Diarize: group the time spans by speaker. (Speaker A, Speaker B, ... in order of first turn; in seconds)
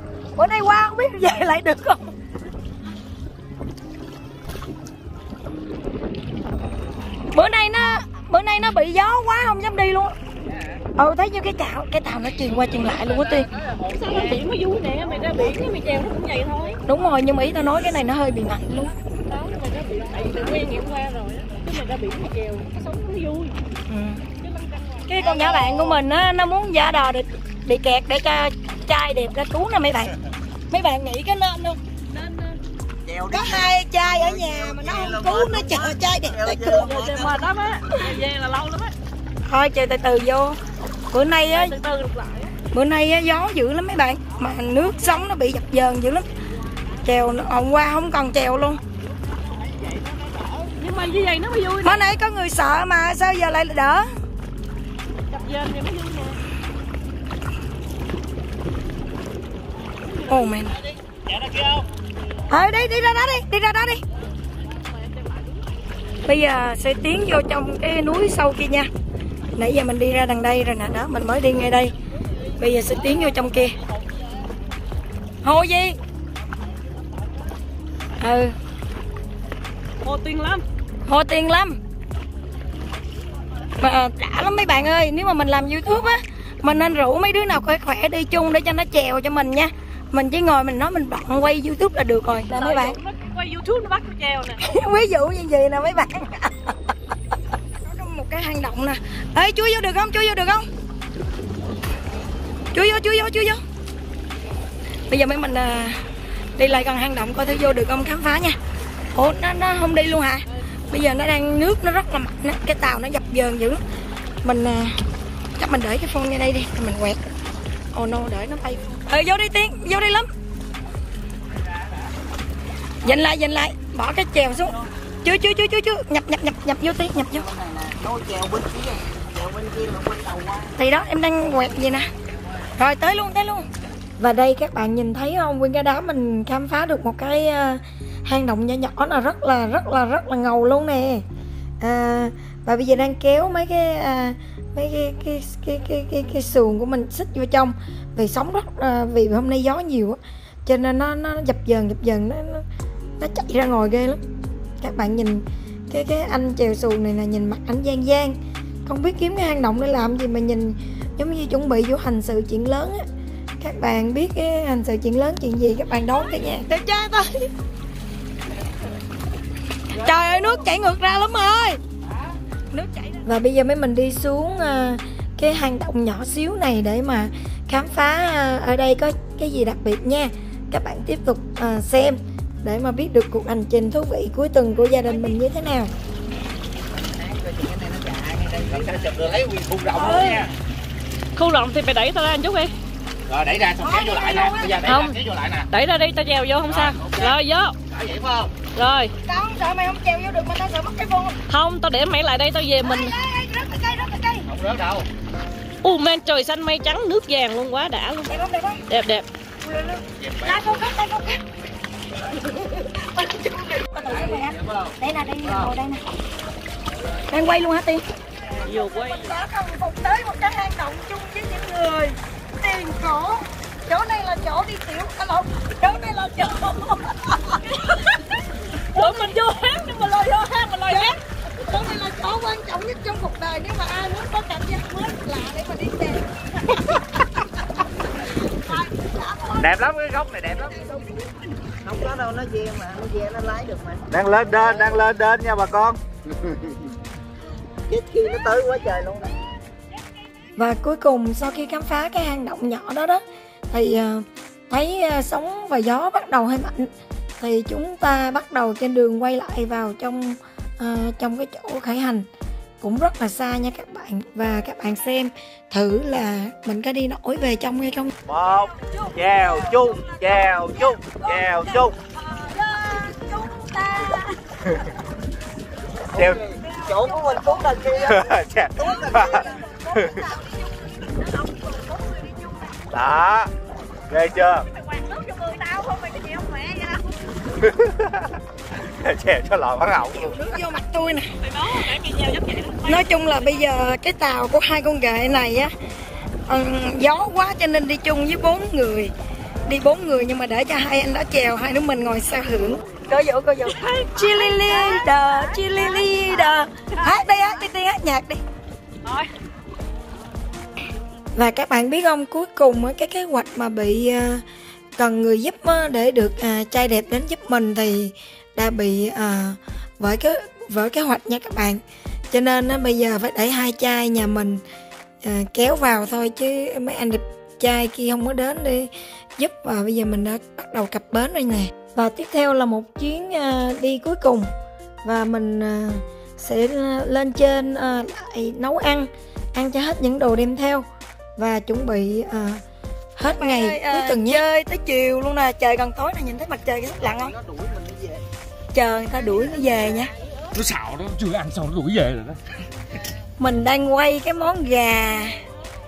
Speaker A: 0.3-2.0, 7.3-10.1, 10.9-13.5, 16.9-18.9, 23.9-24.2, 25.1-30.1, 30.7-31.8, 33.3-36.9, 39.5-40.6, 41.1-41.7, 42.7-46.3, 47.0-48.8, 51.8-54.1, 60.3-60.8, 62.5-64.0, 66.2-68.9, 69.5-71.9, 72.6-73.7, 75.4-76.0, 78.2-78.5, 81.1-81.8, 83.8-93.0, 94.6-96.7, 97.8-100.7, 102.7-103.6, 105.1-106.0, 106.5-108.6, 109.1-113.8, 114.4-115.0, 115.6-117.2, 117.9-120.3, 123.0-127.5, 130.8-132.1, 132.8-133.7, 134.2-141.2, 141.8-152.6, 153.2-154.2, 154.8-163.0, 163.6-167.2, 169.9-171.8, 172.7-185.9, 193.8-195.1, 199.2-201.4, 202.8-204.5, 208.3-208.8, 209.6-211.4, 212.8-216.0, 217.3-227.6, 228.9-229.3, 230.9-236.2, 238.7-239.6, 250.6-262.3, 262.8-268.1, 268.8-274.4, 276.6-278.1, 278.8-282.7, 290.0-291.3, 292.9-295.7, 296.5-299.1, 299.6-308.4, 311.4-314.4, 315.0-321.8, 322.3-324.6, 325.2-334.5, 335.0-342.6, 343.2-347.3, 348.7-350.1, 353.4-355.4
Speaker B: 13.1-13.3, 13.9-14.2, 61.3-61.8, 188.7-190.5, 193.3-195.7, 196.7-197.3, 197.9-198.5, 204.5-205.1, 210.2-210.9, 214.0-215.7, 239.6-240.8, 244.1-245.9, 268.2-272.0, 276.1-276.4, 278.1-279.4, 282.9-283.5, 284.1-284.6, 287.6-290.5, 350.5-352.4
Speaker C: 13.9-16.8, 19.3-23.6, 24.4-26.0, 32.1-32.6, 36.6-38.9, 41.5-42.5, 50.8-52.1, 55.3-56.4, 60.2-60.7, 64.7-65.6, 80.0-80.6, 92.5-94.6, 189.9-190.4, 191.3-192.7, 195.7-197.7, 198.7-199.1, 201.5-203.1, 205.8-208.3, 208.9-209.3, 218.6-219.3, 227.6-231.2, 284.6-287.2, 291.4-293.6, 303.6-307.6, 343.6-344.0
Speaker D: 33.0-37.5, 127.2-130.7, 187.1-189.3, 241.8-245.9, 247.9-249.3, 276.1-279.6, 347.0-348.2